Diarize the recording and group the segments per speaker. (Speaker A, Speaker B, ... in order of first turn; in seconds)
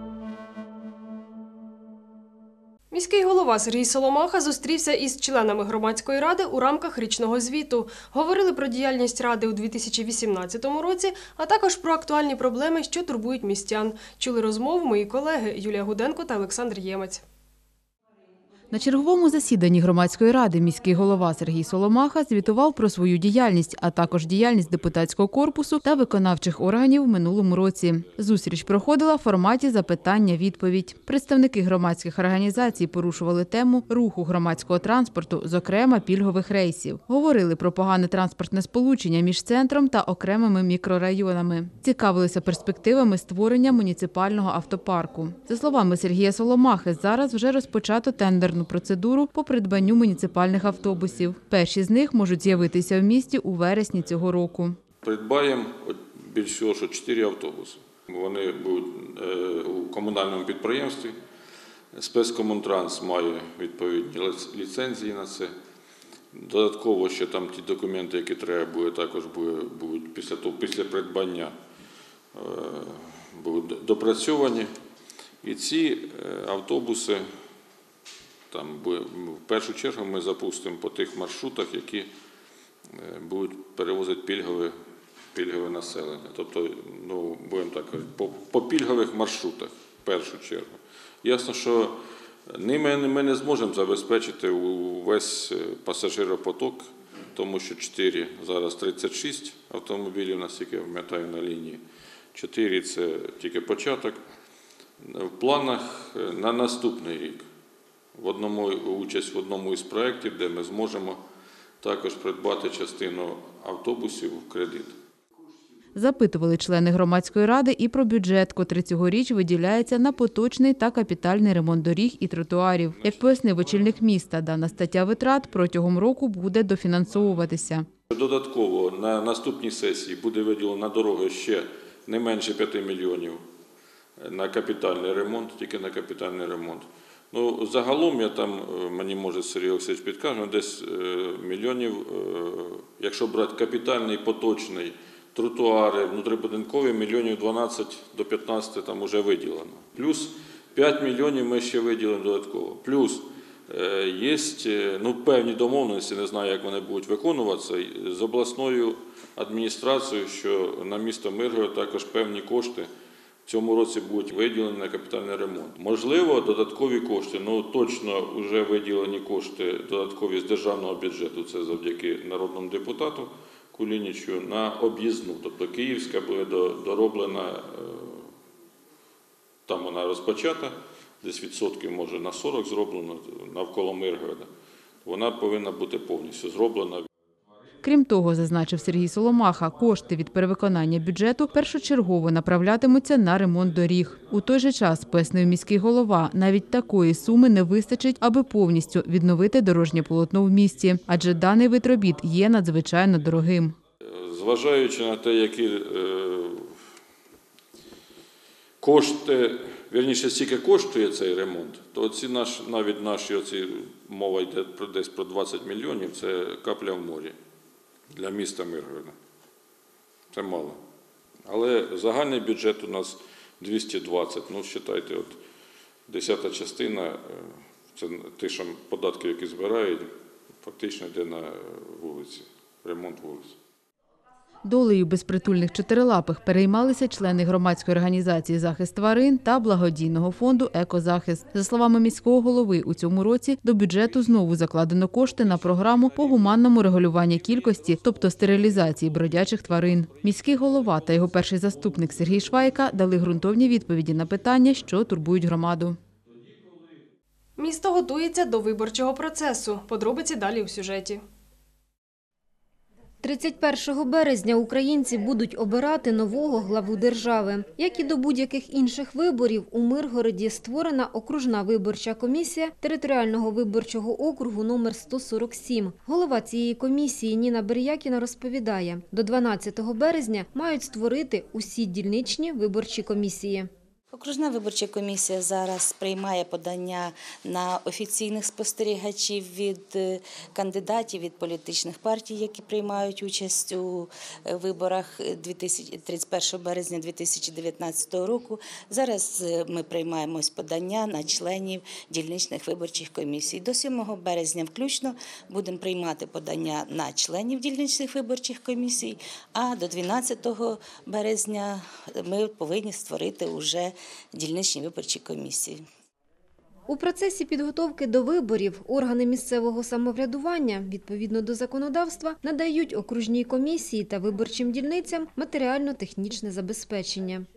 Speaker A: 2.9-17.2, 257.6-261.2
Speaker B: 18.7-54.8, 116.0-127.9, 187.8-203.8, 234.6-256.0
Speaker C: 55.0-61.1, 61.9-65.5, 66.3-71.5, 72.3-74.7, 75.4-77.3, 78.5-82.1, 82.9-84.7, 85.3-92.0, 92.5-101.8, 102.3-104.2, 105.0-107.5, 108.1-111.2, 111.8-115.0, 128.1-133.4, 134.2-162.9, 163.4-178.3, 179.7-184.5, 185.0-187.1, 204.0-206.8, 208.8-217.3, 218.1-219.1, 220.3-220.8, 221.4-225.4, 226.1-230.1, 230.6-233.6
Speaker D: 263.2-283.7, 316.9-327.4
Speaker E: 284.1-315.8